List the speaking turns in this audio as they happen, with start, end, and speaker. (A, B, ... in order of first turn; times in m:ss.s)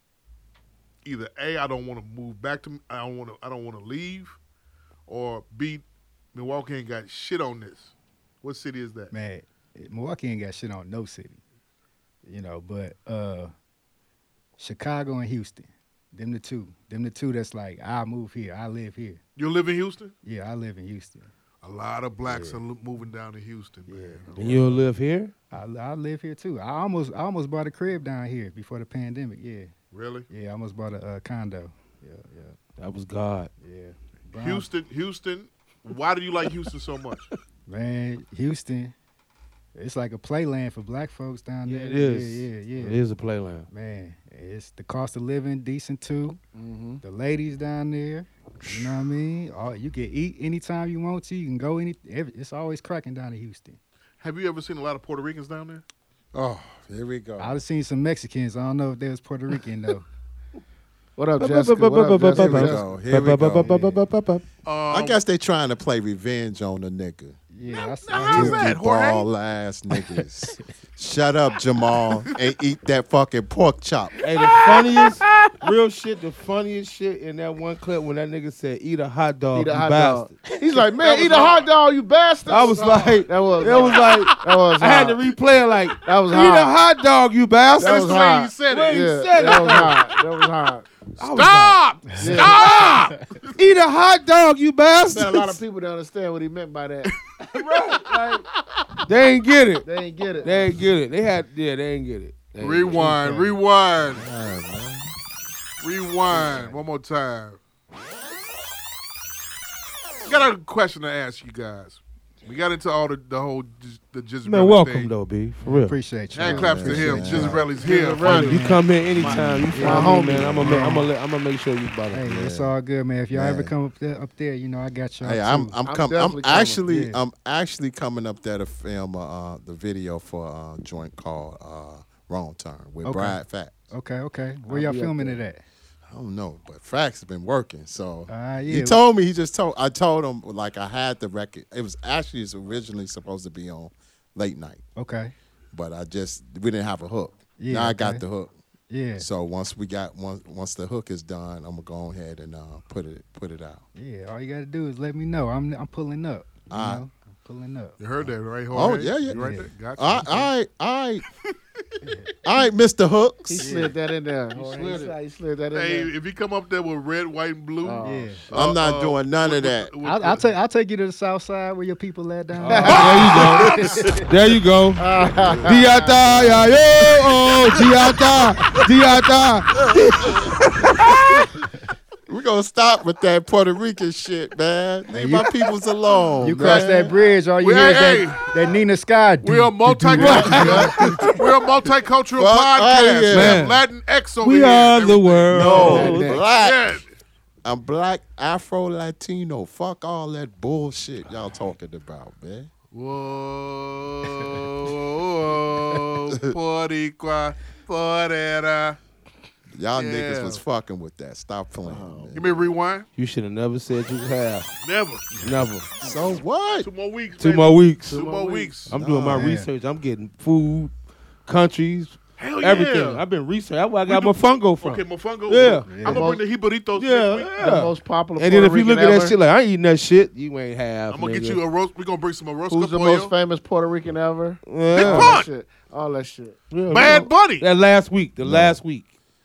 0:01.0-0:04.4 A
0:05.1-0:09.1 A
0:09.1-0:11.4 B
0:12.2-0:13.5 B
0:14.6-0:19.2 B
0:19.4-0:20.1 A
0:20.2-0:21.3 B
0:21.6-0:24.6 A
0:22.2-0:22.6 B
0:23.9-0:24.8 B
0:24.4-0:25.3 C
0:25.5-0:29.7 B
0:29.9-0:30.3 A
0:30.3-0:32.6 B
0:32.8-0:33.5 C
0:33.6-0:34.7 B
0:34.4-0:37.3 A
0:37.7-0:38.9 B
0:39.8-0:43.0 B
0:41.6-0:43.7 C
0:43.7-0:46.4 B
0:46.5-0:47.0 D
0:47.0-0:53.8 B
0:54.2-0:55.8 A
0:56.3-0:57.6 E
0:57.4-1:00.0 B
1:01.2-1:02.8 D
1:01.4-1:04.4 C
1:02.3-1:03.7 E
1:03.6-1:04.0 B
1:04.6-1:05.2 A
1:04.9-1:07.4 E
1:07.5-1:08.8 B
1:08.1-1:09.3 A
1:08.3-1:14.2 E
1:14.2-1:20.4 C
1:19.5-1:25.2 D
1:21.0-1:21.7 A
1:22.5-1:28.1 C
1:22.6-1:24.4 A
1:26.0-1:26.8 D
1:27.8-1:30.9 D
1:27.8-1:30.2 A
1:28.7-1:30.0 C
1:31.2-1:33.2 A
1:31.2-1:32.2 C
1:32.1-1:33.2 B
1:32.2-1:32.9 D
1:33.6-1:35.6 C
1:35.1-1:37.1 D
1:37.0-1:37.7 A
1:37.6-1:38.4 C
1:38.0-1:38.4 D
1:39.1-1:39.9 C
1:39.8-1:40.7 D
1:40.4-1:43.2 C
1:42.6-1:44.2 A
1:43.0-1:43.6 B
1:44.0-1:45.1 E
1:45.8-1:47.6 A
1:46.3-1:46.8 B
1:50.3-1:55.1 A
1:54.4-1:56.0 C
1:55.6-2:01.1 B
1:56.3-1:58.6 A
1:56.4-1:57.6 E
1:57.7-1:58.7 D
1:58.2-2:02.2 C
1:59.2-2:00.6 D
2:00.4-2:00.8 E
2:02.1-2:05.8 B
2:02.2-2:02.8 E
2:03.3-2:03.7 E
2:05.2-2:13.9 E
2:05.8-2:06.8 D
2:06.9-2:07.2 B
2:13.0-2:15.6 B
2:14.7-2:15.4 D
2:16.1-2:24.8 E
2:18.3-2:19.0 B
2:25.0-2:25.3 B
2:25.7-2:28.5 E
2:27.6-2:28.2 B
2:28.9-2:29.3 B
2:29.2-2:33.9 E
2:34.0-2:38.0 B
2:36.7-2:37.0 E
2:38.0-2:40.5 A
2:38.7-2:41.2 E
2:39.3-2:39.7 B
2:42.0-2:42.3 B
2:42.4-2:43.8 E
2:43.5-2:46.1 D
2:43.6-2:44.0 B
2:45.7-2:50.5 A
2:47.8-2:48.4 D
2:48.0-2:48.4 B
2:48.5-2:49.9 E
2:50.0-2:54.3 B
2:52.6-2:55.1 C
2:52.6-2:53.7 D
2:53.0-2:53.4 A
2:55.0-2:56.7 D
2:55.6-3:00.4 C
2:59.9-3:00.4 E
3:02.3-3:07.1 E
3:05.1-3:05.5 B
3:06.4-3:11.4 B
3:06.6-3:06.9 A
3:07.6-3:08.5 A
3:09.4-3:17.1 A
3:10.1-3:11.0 C
3:10.3-3:10.8 E
3:12.4-3:13.6 E
3:13.3-3:13.8 C
3:14.4-3:16.4 C
3:15.5-3:17.0 E
3:15.8-3:16.3 D
3:17.6-3:22.7 E
3:22.9-3:29.0 A
3:29.7-3:32.5 E
3:29.9-3:30.6 A
3:31.8-3:32.5 D
3:32.4-3:33.1 A
3:33.2-3:34.7 C
3:34.8-3:35.4 A
3:35.4-3:35.9 C
3:36.0-3:36.9 E
3:36.8-3:39.0 A
3:37.4-3:38.2 C
3:38.1-3:38.8 D
3:38.9-3:40.9 C
3:39.0-3:39.5 E
3:39.1-3:39.7 B
3:41.4-3:46.0 C
3:42.4-3:43.2 A
3:44.1-3:47.7 A
3:45.9-3:46.3 B
3:46.0-3:46.4 D
3:47.0-3:51.6 C
3:47.6-3:49.4 D
3:51.1-3:53.3 A
3:52.7-3:56.6 D
3:54.7-3:55.4 C
3:54.9-3:55.5 A
3:56.7-3:59.1 C
3:56.9-3:57.6 A
3:58.4-3:58.8 E